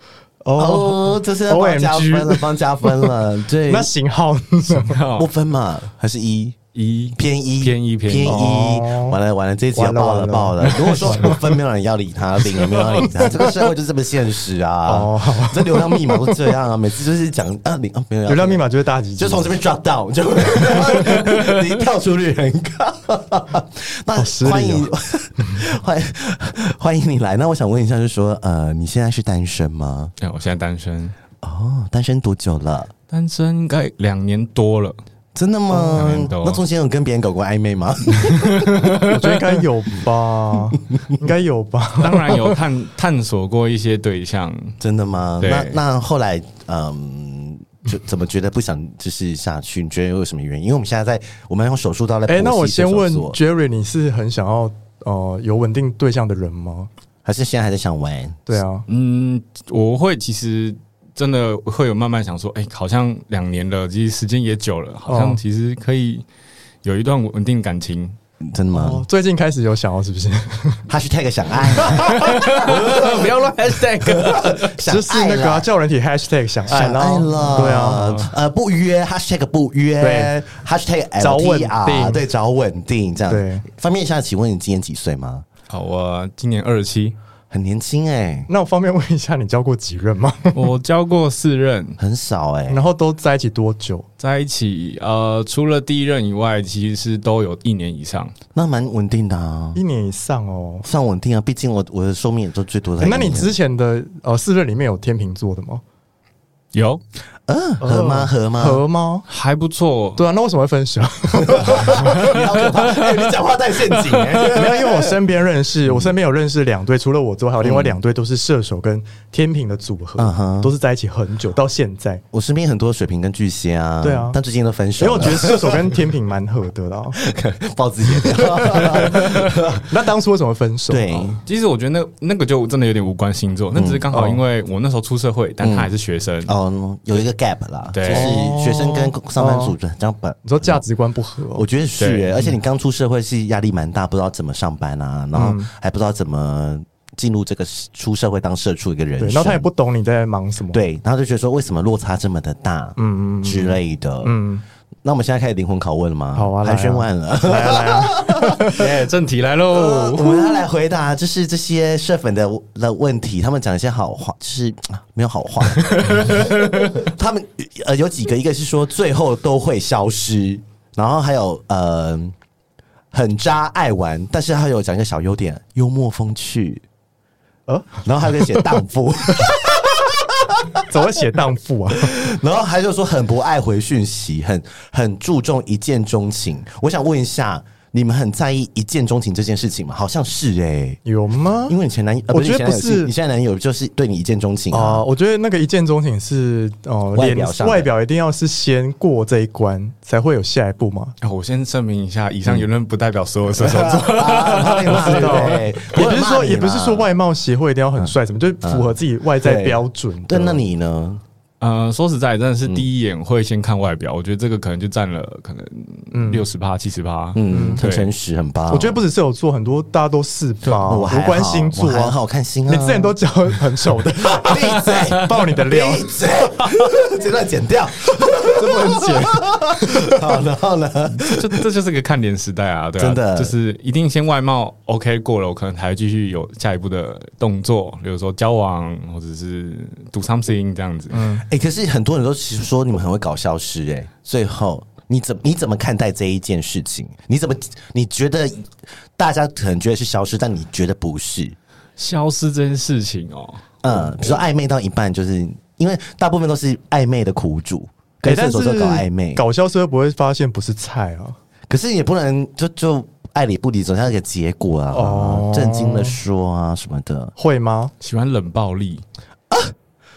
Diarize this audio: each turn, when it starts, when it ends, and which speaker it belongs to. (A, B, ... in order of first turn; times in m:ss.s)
0:00.4-0:03.1 A
0:00.6-0:03.9 B
0:03.7-0:05.0 A
0:04.7-0:05.3 C
0:05.1-0:06.6 B
0:06.7-0:08.4 C
0:07.2-0:18.6 B
0:08.2-0:09.2 A
0:09.7-0:11.4 A
0:10.7-0:11.1 C
0:12.7-0:13.5 A
0:14.8-0:16.4 A
0:18.3-0:19.5 A
0:19.2-0:30.1 B
0:24.1-0:24.9 A
0:30.2-0:31.1 C
0:31.4-0:32.9 B
0:33.1-0:35.0 C
0:35.3-0:38.9 B
0:35.9-0:36.6 C
0:38.5-0:38.9 C
0:38.9-0:42.5 A
0:42.0-0:44.8 C
0:44.8-0:53.4 B
0:45.4-0:45.8 C
0:52.3-0:56.9 A
0:57.2-0:58.6 B
0:58.5-0:58.8 A
0:58.9-1:06.2 C
1:05.1-1:05.4 A
1:06.8-1:08.2 C
1:08.4-1:09.0 B
1:08.7-1:10.8 A
1:10.9-1:13.4 B
1:11.8-1:12.6 A
1:12.0-1:14.7 C
1:14.0-1:15.7 B
1:14.8-1:18.1 A
1:16.7-1:25.4 B
1:17.9-1:18.3 C
1:20.0-1:20.3 A
1:21.2-1:22.2 A
1:23.3-1:23.6 A
1:25.7-1:27.2 C
1:27.5-1:28.5 B
1:28.5-1:30.6 A
1:30.5-1:32.0 C
1:32.0-1:32.8 B
1:32.7-1:34.0 A
1:34.2-1:38.3 C
1:38.5-1:39.8 B
1:39.7-1:40.8 A
1:40.8-1:43.5 B
1:43.0-1:45.8 A
1:46.7-1:47.0 C
1:47.5-1:48.8 B
1:47.8-1:49.2 A
1:49.3-1:50.2 C
1:50.2-1:52.3 A
1:51.4-1:55.1 B
1:51.9-1:53.3 C
1:53.9-1:54.3 C
1:54.4-2:02.2 A
1:55.9-1:56.1 B
1:57.6-1:58.0 B
2:00.2-2:00.7 B
2:02.3-2:05.9 B
2:04.0-2:04.4 A
2:05.0-2:07.2 A
2:07.2-2:09.9 B
2:08.2-2:11.4 A
2:10.9-2:11.4 B
2:11.4-2:16.5 C
2:13.7-2:14.1 B
2:14.1-2:14.4 A
2:15.6-2:15.9 B
2:16.4-2:20.8 B
2:17.9-2:18.3 C
2:18.1-2:19.8 A
2:20.4-2:21.6 A
2:21.5-2:29.6 B
2:22.0-2:22.3 C
2:25.3-2:25.7 A
2:29.2-2:30.8 A
2:30.7-2:34.3 B
2:33.0-2:34.6 A
2:35.0-2:38.7 B
2:36.3-2:38.8 A
2:38.7-2:40.7 C
2:39.7-2:52.3 B
2:45.7-2:47.0 C
2:53.1-2:56.8 B
2:57.7-2:58.6 A
2:58.0-3:00.8 B
3:00.8-3:02.2 A
3:02.0-3:11.0 B
3:11.0-3:11.8 A
3:11.7-3:15.0 B
3:12.3-3:13.1 A
3:14.7-3:21.1 A
3:17.1-3:17.9 B
3:21.2-3:25.5 C
3:23.5-3:27.1 B
3:24.8-3:30.6 A
3:28.0-3:31.2 B
3:31.6-3:38.1 C
3:36.1-3:36.4 A
3:37.3-3:39.0 B
3:37.5-3:37.8 A
3:38.7-3:42.2 A
3:40.7-3:43.2 B
3:42.7-3:46.1 A
3:44.1-3:51.6 B
3:48.4-3:50.2 A
3:51.1-4:01.3 C
3:53.0-3:53.5 B
4:01.1-4:01.4 A
4:01.4-4:11.6 B
4:12.0-4:13.6 C
4:13.8-4:19.4 B
4:18.2-4:21.4 A
4:21.7-4:27.3 B
4:24.9-4:26.2 A
4:27.4-4:27.9 A
4:28.0-4:29.0 C